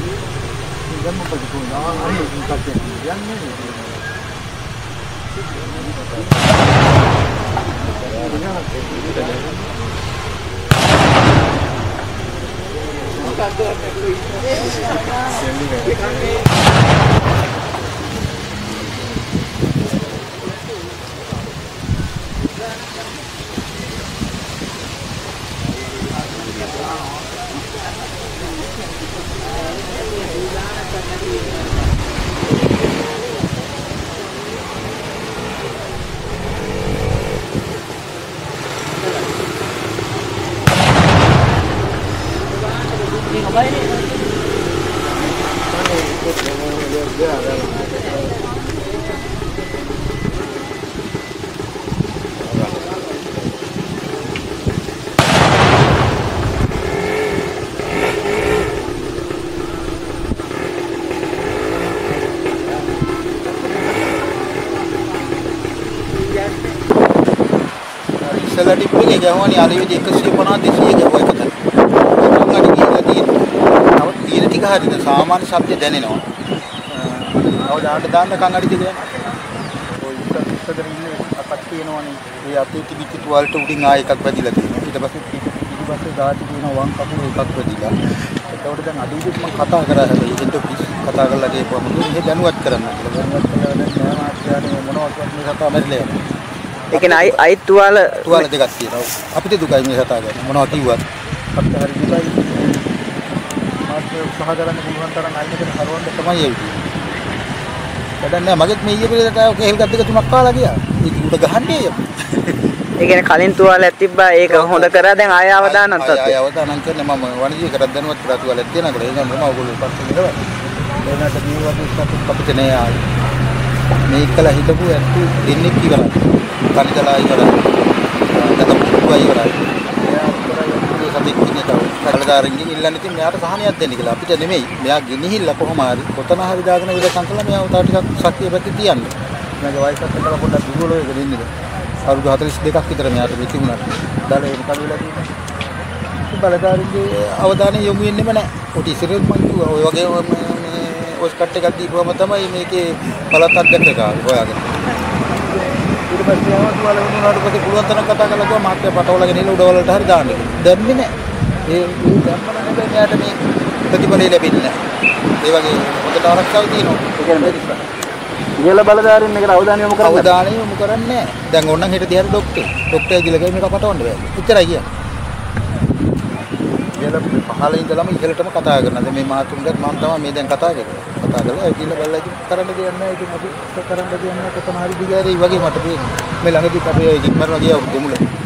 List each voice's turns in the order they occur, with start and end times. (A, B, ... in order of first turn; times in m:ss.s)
0:01.0-0:03.4 A
0:43.5-0:43.8 B
1:08.2-1:13.3 A
1:13.9-1:16.2 A
1:16.9-1:19.0 A
1:20.0-1:27.9 A
1:28.5-1:36.2 A
1:36.9-1:37.4 A
1:36.9-1:38.4 B
1:38.2-1:41.0 A
1:41.5-1:42.8 A
1:43.9-1:46.8 A
1:48.2-1:52.5 A
1:53.0-1:56.3 B
1:54.5-2:00.4 A
2:01.0-2:02.9 A
2:04.1-2:07.6 A
2:08.3-2:21.5 A
2:22.1-2:25.3 A
2:26.2-2:41.1 A
2:41.7-2:43.3 A
2:43.9-2:44.7 A
2:45.4-2:47.8 A
2:47.2-2:47.6 C
2:48.6-2:50.3 C
2:50.0-2:54.8 A
2:57.0-3:08.2 A